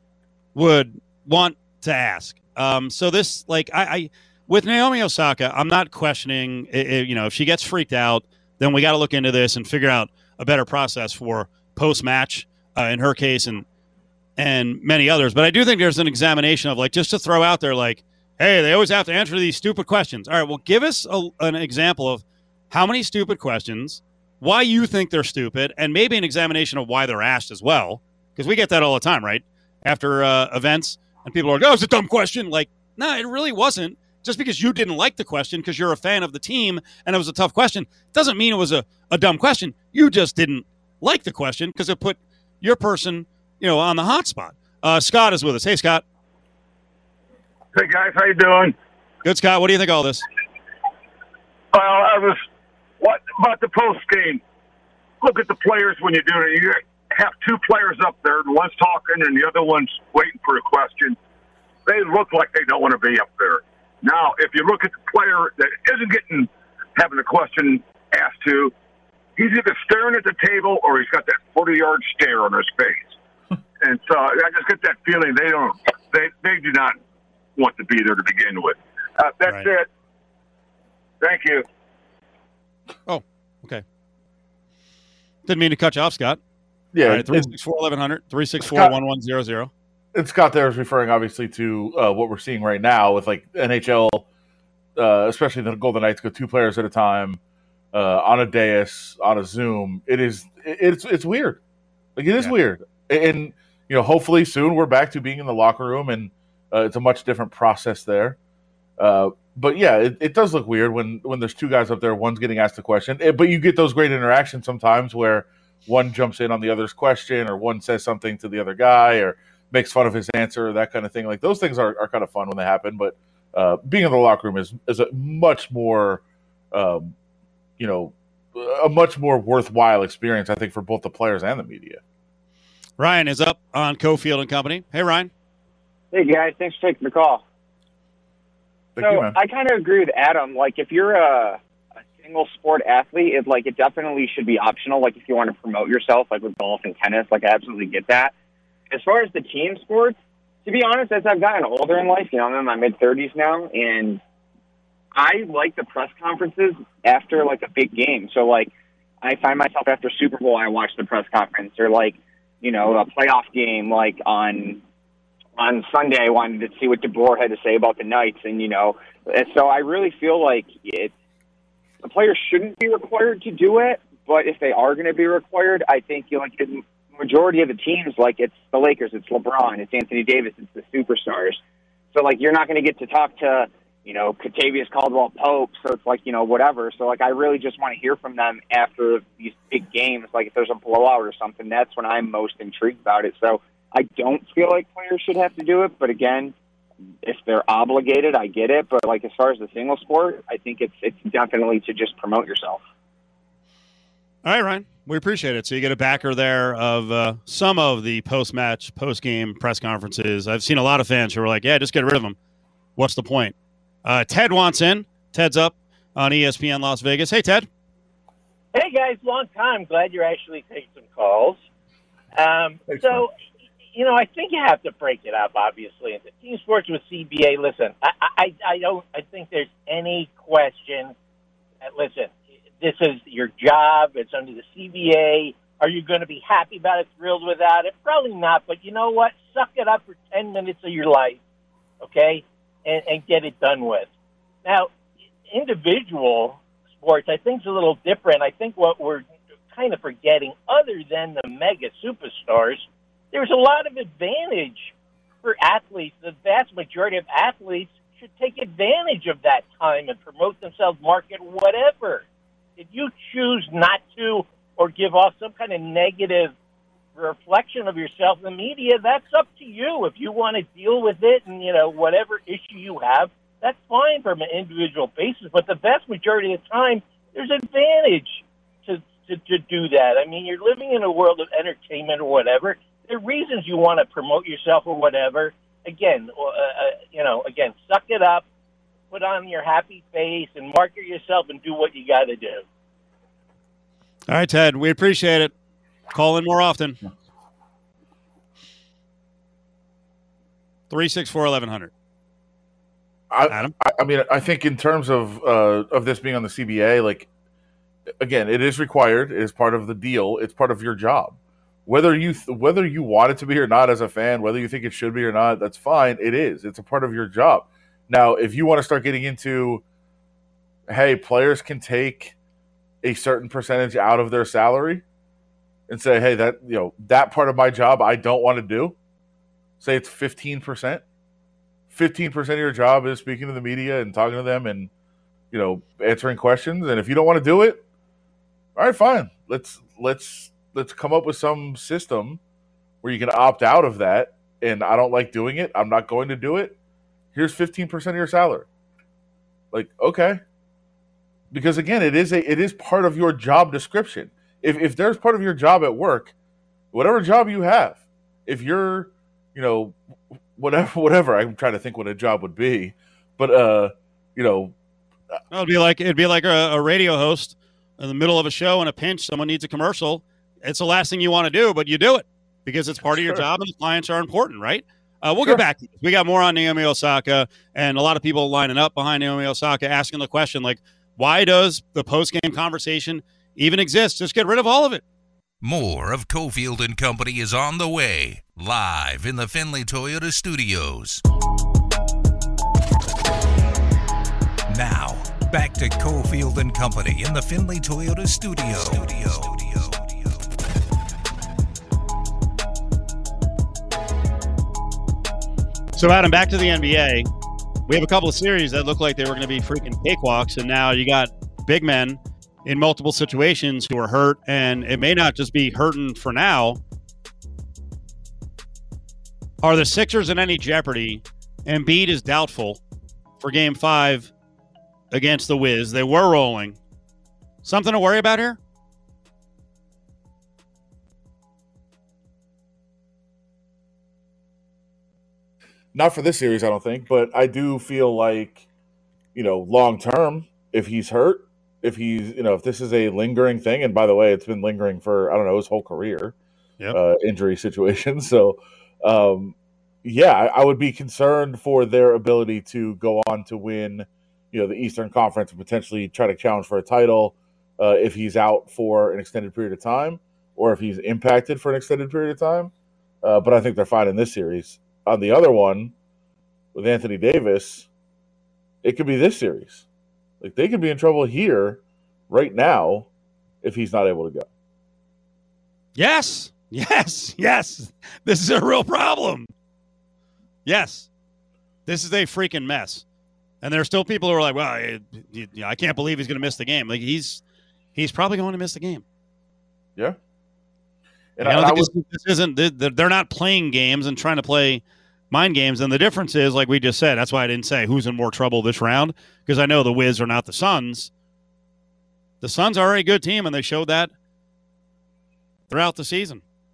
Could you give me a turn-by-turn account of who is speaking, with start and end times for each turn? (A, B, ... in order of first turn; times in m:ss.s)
0:00.5-0:13.6 A
0:14.4-0:46.0 A
0:47.7-0:48.7 B
0:49.2-0:50.2 A
0:51.7-0:52.4 B
0:53.0-0:54.4 B
0:55.2-1:01.2 B
1:01.8-1:08.7 B
1:09.4-1:13.2 B
1:13.8-1:17.0 B
1:17.6-1:19.9 B
1:21.2-1:21.6 B
1:23.1-1:23.8 A
1:25.4-1:26.4 A
1:26.9-1:27.5 C
1:27.0-1:29.7 A
1:28.6-1:28.9 C
1:30.1-1:34.3 C
1:35.0-1:37.4 C
1:37.9-1:41.6 C
1:42.2-1:48.4 C
1:49.0-2:07.1 C
2:07.8-2:12.0 C
2:13.0-2:15.3 A
2:16.1-2:17.4 D
2:19.0-2:19.4 C
2:19.0-2:21.6 D
2:22.1-2:28.3 D
2:28.9-2:34.2 D
2:35.1-2:44.8 D
2:45.6-2:51.1 D
2:52.0-3:01.6 D
3:02.1-3:16.5 D
3:17.2-3:22.8 D
3:24.4-3:32.4 A
3:33.0-3:37.7 A
3:38.7-3:41.6 E
3:42.3-3:43.3 E
3:42.9-3:43.2 C
3:43.9-3:51.1 E
3:51.8-4:01.4 E
4:02.0-4:04.1 E
4:04.6-4:04.9 E
4:05.5-4:22.2 E
4:22.8-4:26.5 E
4:27.2-4:48.4 E
4:49.1-4:52.6 E
4:54.3-4:55.5 A
4:56.1-4:57.0 A
5:00.9-5:01.9 A
5:03.3-5:07.3 C
5:08.2-5:19.8 C
5:20.9-5:22.4 C
5:23.0-5:25.0 C
5:25.9-5:29.0 C
5:29.8-5:31.0 C
5:31.9-5:34.9 C
5:35.5-5:37.8 C
5:38.8-5:42.4 C
5:43.0-5:46.8 C
5:47.3-5:48.7 C
5:49.7-5:50.4 C
5:51.5-5:56.3 C
5:56.9-6:00.0 C
6:00.6-6:04.7 C
6:05.5-6:25.0 A
6:13.1-6:13.4 C
6:25.6-6:31.2 F
6:34.7-6:40.0 F
6:46.0-6:47.3 A
6:47.9-6:56.8 A
6:59.6-7:02.8 A
7:03.4-7:04.3 A
7:05.1-7:06.8 A
7:07.6-7:08.6 A
7:15.9-7:18.6 C
7:19.3-7:26.3 C
7:26.9-7:42.7 C
7:43.2-7:45.9 C
7:46.7-7:47.9 C
7:48.8-7:49.8 C
7:50.4-7:53.1 C
7:53.6-7:54.5 C
7:56.0-7:59.5 A
8:00.6-8:01.1 A
8:01.8-8:03.0 A
8:03.6-8:07.4 A
8:07.9-8:09.0 A
8:11.4-8:11.9 C
8:11.4-8:21.1 A
8:22.4-8:24.1 A
8:25.7-8:26.4 A